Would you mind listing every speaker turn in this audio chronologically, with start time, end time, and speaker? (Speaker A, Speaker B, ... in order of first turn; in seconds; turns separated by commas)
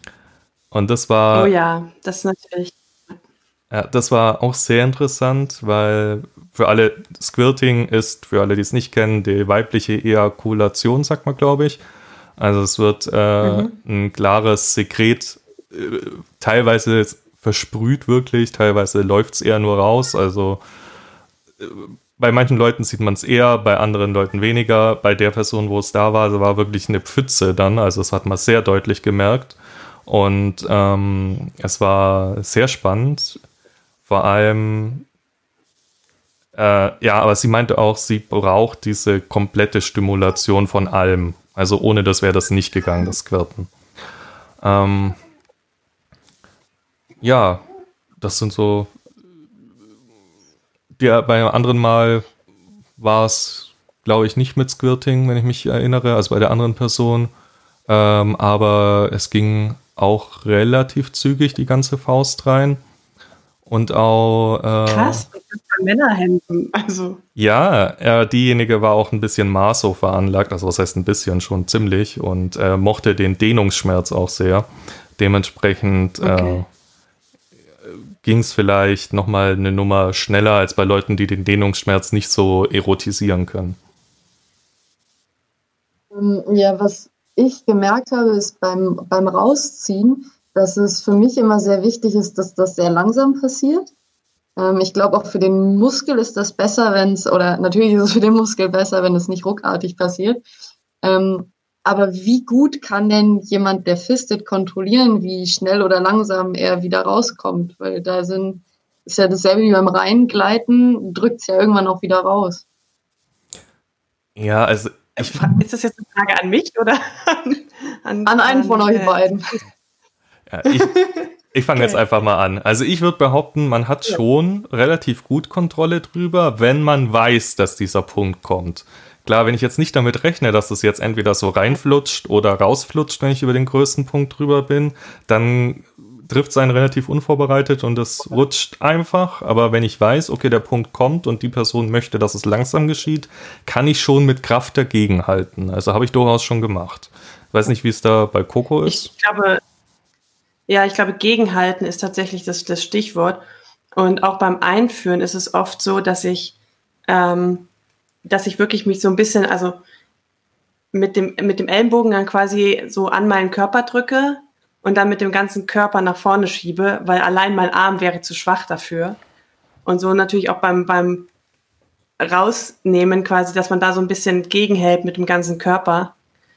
Speaker A: 0.7-1.5, Speaker B: 1.3-3.2, Speaker A: 3.7-11.8, Speaker A: 12.4-20.6, Speaker B: 13.4-13.7, Speaker A: 21.6-33.4, Speaker A: 34.1-35.1, Speaker A: 36.5-43.7, Speaker A: 44.6-45.2, Speaker A: 47.2-47.6, Speaker A: 48.2-48.9, Speaker A: 51.0-52.3, Speaker A: 53.0-57.3, Speaker A: 57.9-62.8, Speaker A: 63.7-65.3, Speaker B: 64.9-67.2, Speaker A: 67.4-76.7, Speaker B: 76.2-76.6, Speaker A: 78.2-83.8, Speaker C: 86.1-93.9, Speaker C: 94.6-100.4, Speaker C: 101.0-112.6, Speaker A: 114.4-115.5, Speaker B: 115.2-119.3, Speaker C: 118.3-119.6, Speaker A: 120.5-149.1, Speaker B: 120.8-121.2, Speaker B: 121.8-122.0, Speaker B: 148.9-149.6, Speaker B: 150.7-153.4, Speaker B: 154.0-156.6, Speaker B: 157.1-157.7, Speaker B: 158.2-159.8, Speaker B: 160.9-169.2, Speaker B: 169.8-171.3, Speaker B: 172.2-176.2